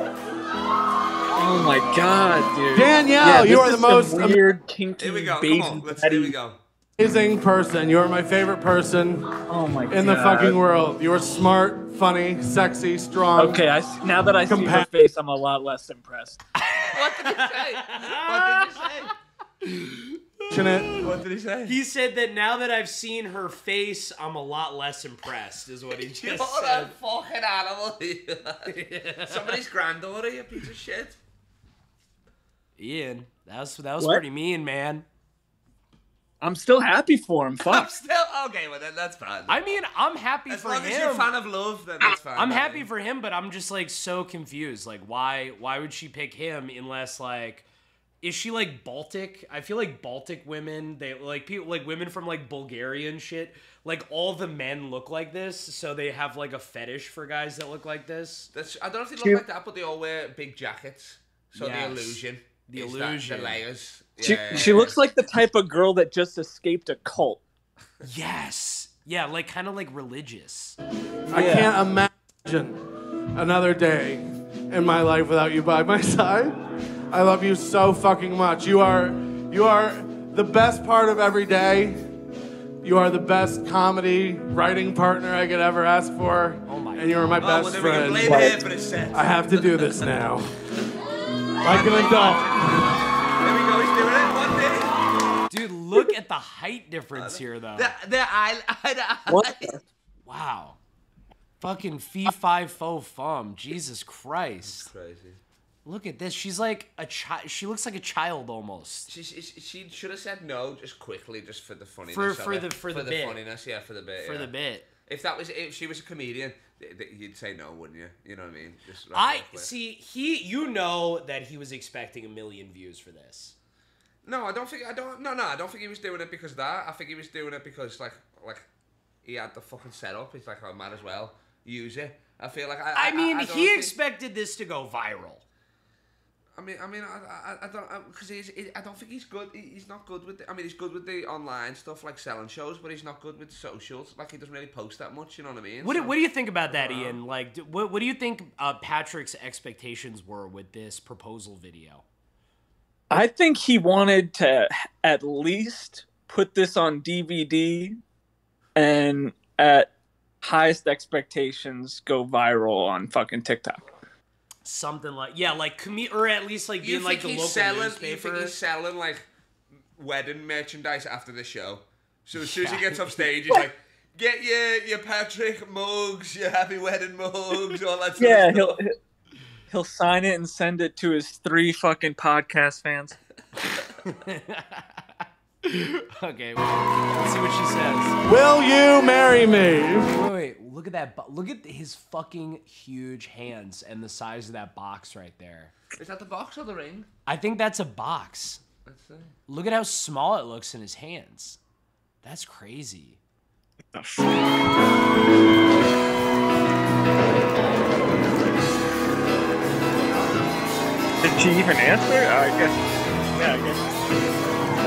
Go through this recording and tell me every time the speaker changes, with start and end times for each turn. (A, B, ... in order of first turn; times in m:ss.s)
0:01.4-0:06.4 A
0:02.7-0:04.5 B
0:05.0-0:06.6 C
0:07.0-0:09.3 B
0:09.5-0:10.6 A
0:09.9-0:13.7 B
0:13.4-0:16.4 A
0:14.4-0:14.9 B
0:16.6-0:18.9 D
0:16.9-0:19.1 C
0:20.5-0:21.0 B
0:21.0-0:21.8 C
0:21.7-0:26.9 D
0:26.0-0:31.2 C
0:28.7-0:29.6 D
0:32.8-0:35.0 D
0:36.4-0:37.9 A
0:37.7-0:39.6 C
0:39.5-0:41.3 D
0:40.5-0:42.9 C
0:42.1-0:47.7 D
0:48.2-0:58.5 D
0:58.5-1:05.0 C
1:01.6-1:03.6 D
1:04.2-1:07.4 A
1:08.0-1:10.8 D
1:11.3-1:12.8 B
1:11.4-1:11.7 A
1:13.4-1:16.6 B
1:17.1-1:22.1 B
1:22.8-1:28.6 B
1:26.7-1:27.4 D
1:27.4-1:30.1 C
1:28.3-1:28.6 A
1:29.1-1:30.6 B
1:31.6-1:32.6 C
1:31.6-1:33.0 B
1:33.4-1:34.9 C
1:35.5-1:37.9 D
1:37.2-1:39.7 C
1:39.3-1:39.8 A
1:40.3-1:40.8 D
1:41.6-1:44.9 D
1:44.6-1:45.4 C
1:45.8-1:49.1 D
1:49.1-1:54.5 C
1:52.1-1:53.4 D
1:54.2-1:54.9 D
1:55.1-1:59.7 C
1:59.1-2:03.6 D
2:04.2-2:08.7 C
2:09.2-2:14.0 C
2:13.0-2:15.4 D
2:16.6-2:26.1 C
2:25.8-2:32.0 D
2:26.7-2:27.2 C
2:33.1-2:38.0 A
2:38.8-2:39.9 A
2:40.4-2:43.9 A
2:44.6-2:48.6 D
2:46.8-2:49.3 C
2:50.0-2:58.8 C
2:52.4-2:53.3 D
2:58.2-2:59.0 A
2:59.7-3:03.2 A
3:04.0-3:05.0 D
3:05.6-3:08.2 D
3:08.2-3:10.1 B
3:10.1-3:15.7 D
3:15.9-3:17.1 C
3:17.3-3:18.6 D
3:18.8-3:19.3 C
3:19.5-3:21.6 D
3:22.2-3:23.2 D
3:23.9-3:24.4 A
3:30.1-3:30.7 C
3:31.2-3:32.8 A
3:33.3-3:34.0 A